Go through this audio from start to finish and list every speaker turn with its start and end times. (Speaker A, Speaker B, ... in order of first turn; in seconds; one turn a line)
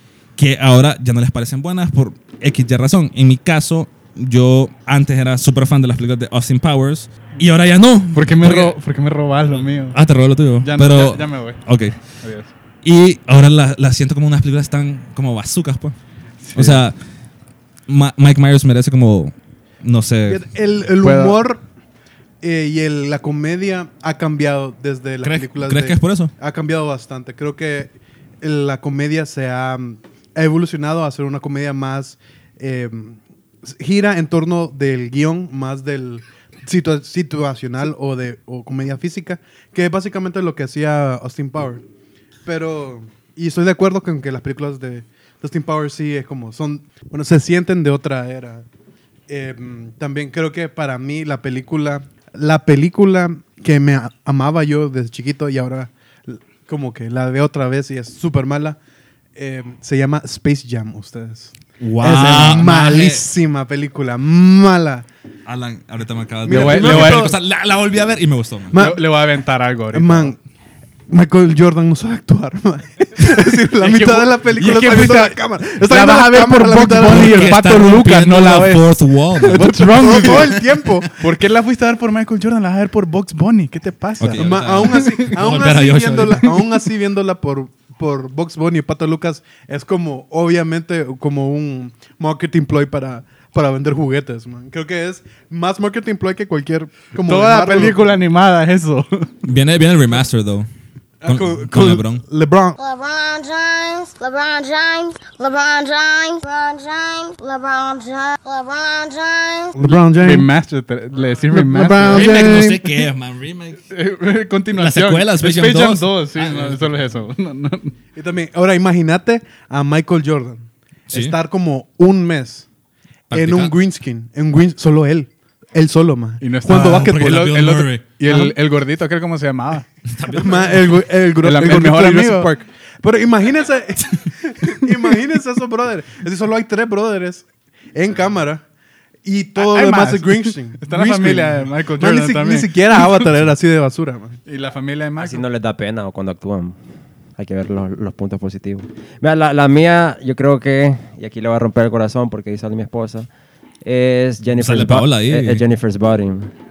Speaker A: 0.4-8.8
Speaker B: 8.1-10.0
Speaker A: 9.9-12.0
Speaker B: 10.6-11.6
Speaker B: 12.2-12.5
Speaker A: 12.8-16.0
Speaker B: 16.4-16.8
Speaker A: 16.6-17.0
Speaker A: 17.9-20.4
Speaker C: 20.3-21.6
Speaker B: 21.0-21.4
Speaker C: 22.4-41.8
Speaker A: 25.2-26.3
Speaker C: 42.4-48.7
Speaker C: 49.3-58.8
Speaker C: 59.4-65.1
Speaker A: 61.8-63.2
Speaker A: 65.5-68.8
Speaker C: 66.5-67.3
Speaker B: 66.5-67.3
Speaker C: 68.7-69.1
Speaker B: 68.8-70.3
Speaker C: 69.9-70.4
Speaker C: 71.1-77.5
Speaker B: 73.8-80.6
Speaker A: 77.0-80.5
Speaker C: 80.0-81.3
Speaker B: 81.2-85.3
Speaker A: 84.2-86.4
Speaker C: 84.4-98.0
Speaker B: 97.2-99.3
Speaker A: 99.4-100.7
Speaker C: 101.2-102.8
Speaker A: 101.2-102.2
Speaker D: 102.8-109.8
Speaker C: 109.8-110.5
Speaker B: 110.2-112.4
Speaker C: 111.5-112.8
Speaker A: 112.1-113.8
Speaker B: 113.9-117.9
Speaker A: 114.8-116.9
Speaker C: 118.2-122.7
Speaker A: 123.3-123.8
Speaker C: 123.3-127.5
Speaker B: 126.4-129.9
Speaker A: 126.7-128.5
Speaker A: 130.1-131.0
Speaker C: 130.3-138.6
Speaker B: 131.4-132.5
Speaker C: 139.2-144.4
Speaker B: 139.6-143.1
Speaker B: 144.5-145.5
Speaker E: 145.2-146.8
Speaker E: 147.4-153.3
Speaker E: 153.8-156.5
Speaker A: 154.6-155.6